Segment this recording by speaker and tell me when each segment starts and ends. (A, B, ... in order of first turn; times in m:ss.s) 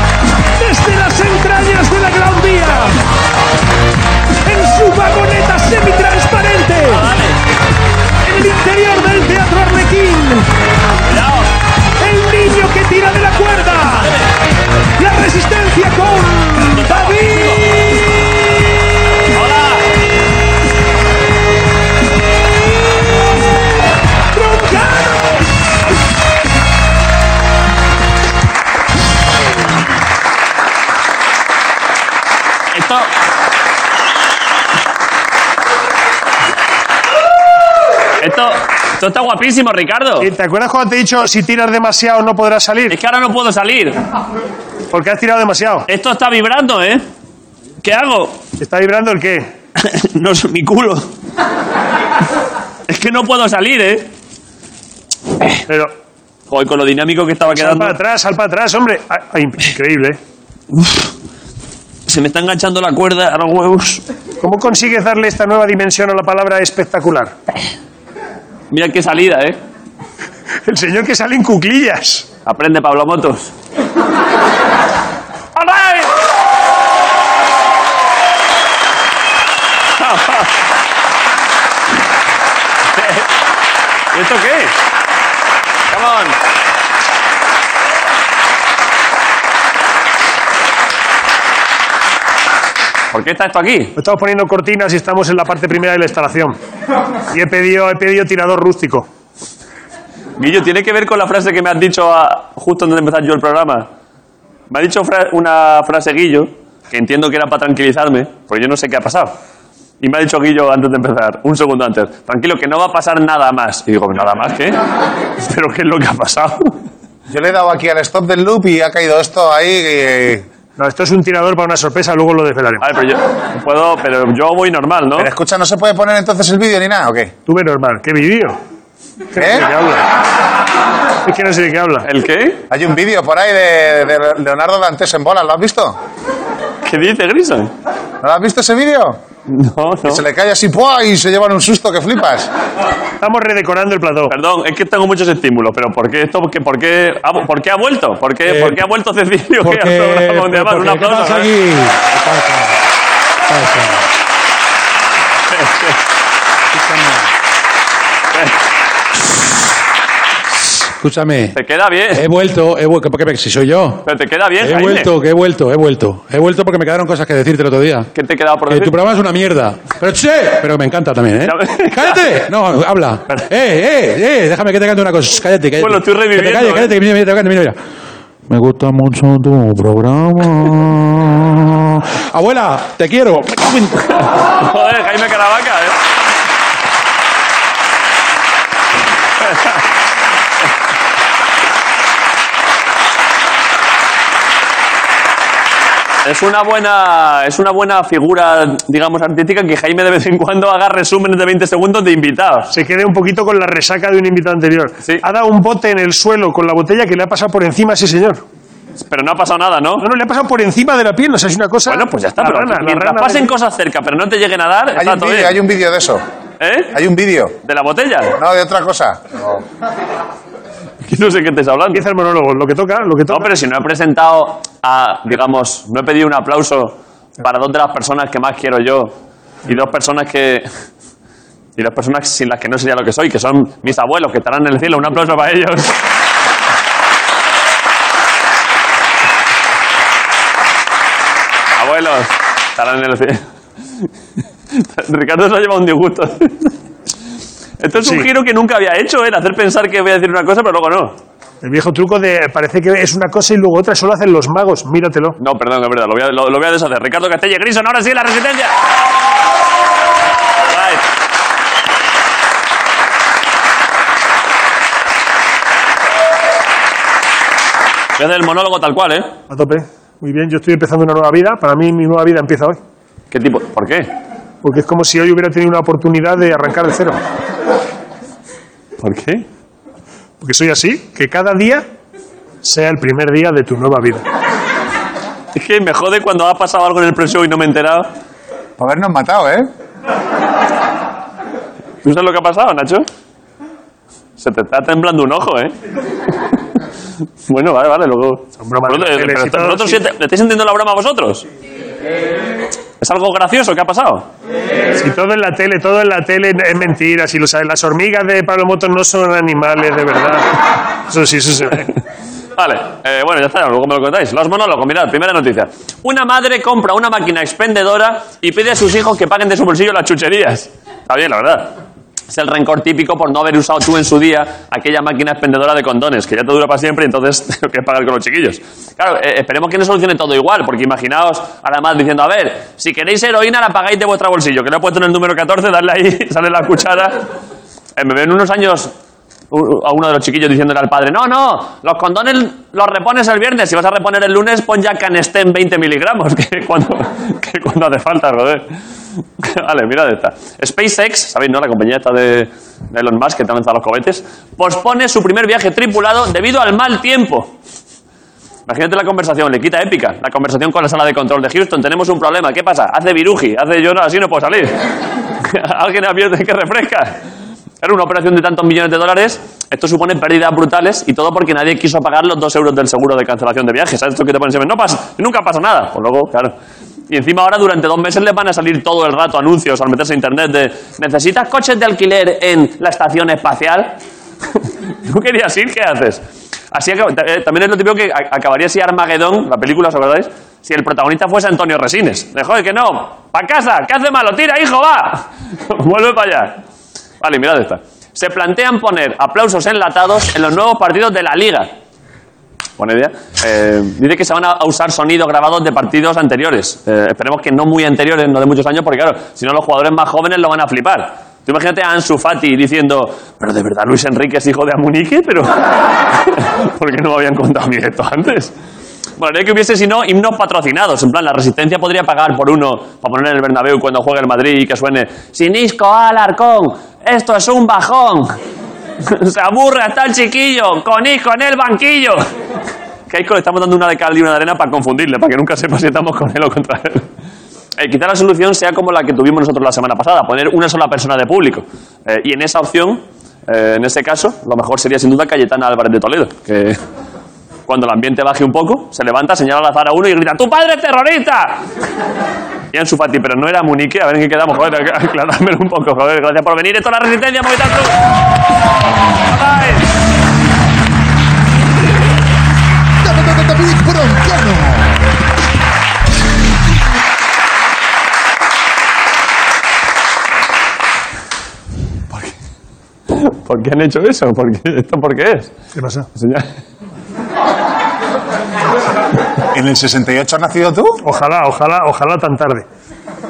0:00.6-0:03.0 A
0:04.4-0:07.1 A
0:06.8-0:07.4 B
0:08.2-0:10.5 A
0:11.0-0:11.5 B
0:12.0-0:14.2 A
0:13.6-0:14.3 B
0:15.0-0:17.6 A
0:16.6-0:17.7 B
0:19.2-0:19.9 B
0:24.3-0:25.4 A
0:32.7-0:33.1 B
0:38.2-0:40.3 B
0:40.2-0:43.0 A
0:42.9-0:44.0 B
0:44.9-0:45.9 A
0:45.9-0:47.0 B
0:47.8-0:48.4 B
0:48.6-0:49.5 A
0:49.8-0:51.1 B
0:52.9-0:54.1 B
0:55.7-0:55.9 A
0:56.5-0:57.9 B
0:57.5-1:00.2 A
1:00.7-1:01.1 B
1:02.1-1:04.0 B
1:04.4-1:07.4 A
1:08.7-1:09.6 B
1:10.7-1:12.3 A
1:12.4-1:13.5 B
1:15.6-1:16.1 B
1:20.0-1:20.5 B
1:22.9-1:23.3 B
1:24.1-1:24.8 B
1:25.9-1:26.4 B
1:33.1-1:34.0 B
1:34.0-1:36.6 A
1:37.3-1:39.1 A
1:40.4-1:43.8 B
1:44.7-1:49.3 B
1:50.0-1:54.8 B
1:55.4-1:56.8 B
1:57.3-2:00.4 C
2:00.8-2:02.8 A
2:02.8-2:05.3 B
2:05.2-2:07.3 C
2:07.5-2:08.6 A
2:09.3-2:10.1 A
2:09.4-2:09.7 C
2:11.2-2:12.1 A
2:12.0-2:12.6 B
2:12.7-2:16.0 C
2:16.8-2:17.7 B
2:18.2-2:19.2 C
2:19.5-2:20.2 B
2:20.0-2:22.5 C
2:23.2-2:24.3 A
2:24.3-2:31.5 B
2:28.5-2:28.8 D
2:29.6-2:32.8 D
2:33.5-2:34.0 D
2:35.5-2:36.0 B
2:36.7-2:37.2 D
2:40.8-2:41.6 D
2:41.5-2:42.2 B
2:42.1-2:44.0 D
2:44.0-2:45.1 B
2:44.6-2:48.1 D
2:48.1-2:49.0 B
2:48.7-2:57.8 D
2:51.4-2:52.2 B
2:55.8-2:57.0 B
2:58.5-3:04.1 D
3:04.1-3:06.0 B
3:09.4-3:09.8 B
3:16.2-3:22.7 B
3:22.7-3:28.4 A
3:29.0-3:30.1 B
3:30.0-3:33.5 A
3:31.9-3:35.5 B
3:35.0-3:36.2 C
3:36.6-3:36.9 B
3:36.9-3:37.5 C
3:37.6-3:38.4 B
3:38.4-3:39.6 C
3:41.0-3:42.0 B
3:41.9-3:43.5 A
3:43.3-3:49.1 B
3:49.7-3:50.7 B
3:51.8-3:56.0 B
4:01.8-4:03.4 B
4:04.7-4:06.7 B
4:07.8-4:11.2 B
4:11.6-4:15.4 A
4:15.4-4:18.8 B
4:20.6-4:21.0 B
4:28.2-4:29.3 B
4:29.5-4:32.8 A
4:33.3-4:34.1 B
4:34.6-4:37.2 A
4:39.0-4:39.4 B
4:40.4-4:41.8 A
4:42.6-4:44.2 A
4:45.5-4:48.1 B
4:48.8-4:49.7 C
4:52.0-4:53.1 B
4:54.4-4:55.8 B
4:57.5-5:01.4 B
4:58.6-5:00.0 A
5:03.0-5:04.3 B
5:05.0-5:11.9 A
5:12.6-5:21.8 B
5:22.3-5:37.2 B
5:38.0-5:38.9 B
5:39.5-5:48.7 B
5:49.4-5:57.5 B
5:58.7-6:04.8 B
6:05.4-6:07.2 B
6:07.8-6:16.5 B
6:17.1-6:23.9 B
6:24.6-6:36.6 B
6:37.2-6:41.7 B
6:42.8-6:58.5 B
6:59.2-7:08.4 B
7:09.0-7:12.2 B
7:13.1-7:17.1 B
7:17.8-7:26.8 B
7:27.7-7:31.6 B
7:32.7-7:38.0 B
7:39.3-7:39.9 B
7:43.6-7:44.6 C
7:53.1-7:55.5 B
7:55.8-7:56.1 A
7:56.1-7:56.5 B
7:59.5-8:01.0 C
8:01.0-8:02.6 A